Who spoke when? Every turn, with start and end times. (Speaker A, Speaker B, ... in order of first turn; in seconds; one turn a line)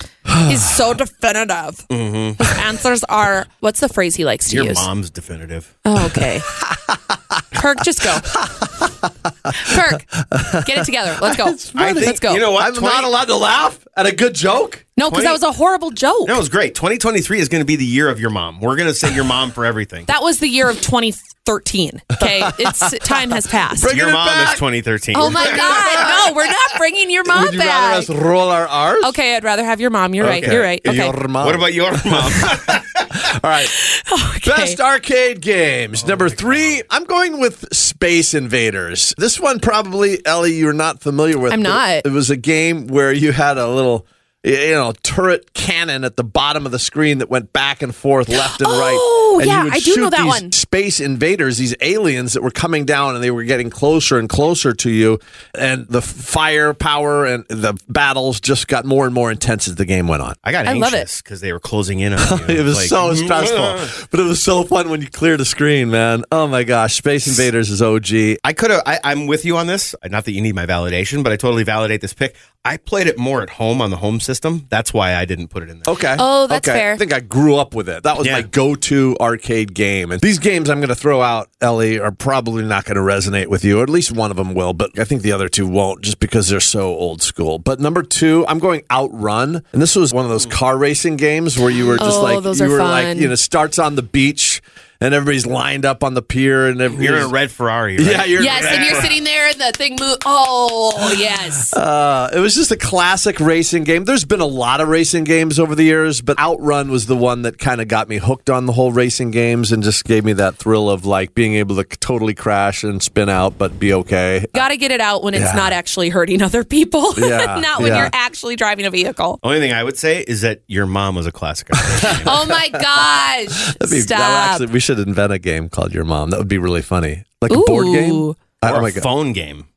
Speaker A: 0.3-0.7
Speaker B: 0.4-1.9
Speaker C: 1.9-2.5
Speaker B: 2.4-4.9
Speaker C: 4.5-5.7
Speaker B: 5.8-6.5
Speaker A: 6.0-7.4
Speaker B: 7.5-8.4
Speaker A: 8.0-14.8
Speaker B: 9.5-12.5
Speaker C: 11.7-13.1
Speaker B: 14.9-16.4
Speaker C: 15.1-15.4
Speaker C: 16.2-20.1
Speaker B: 20.1-23.9
Speaker A: 22.2-24.6
Speaker C: 23.9-26.1
Speaker B: 25.1-28.1
Speaker A: 25.3-26.2
Speaker A: 27.2-29.1
Speaker B: 29.0-31.1
Speaker C: 30.2-33.1
Speaker A: 30.2-33.7
Speaker B: 33.6-34.8
Speaker A: 34.4-60.4
Speaker C: 36.0-36.8
Speaker B: 41.5-42.0
Speaker B: 48.3-50.5
Speaker C: 60.4-63.9
Speaker B: 60.6-61.1
Speaker A: 62.2-68.4
Speaker C: 68.4-75.9
Speaker A: 75.8-97.3
Speaker B: 76.2-77.0
Speaker C: 78.2-78.5
Speaker B: 92.0-93.3
Speaker C: 96.9-99.1
Speaker A: 98.0-99.1
Speaker B: 98.4-101.8
Speaker A: 101.7-114.7
Speaker B: 114.5-119.4
Speaker A: 115.3-115.7
Speaker A: 117.2-118.1
Speaker C: 117.8-118.1
Speaker C: 119.4-122.5
Speaker A: 121.8-122.8
Speaker B: 122.2-124.6
Speaker A: 123.6-129.1
Speaker B: 127.5-128.3
Speaker C: 128.6-129.7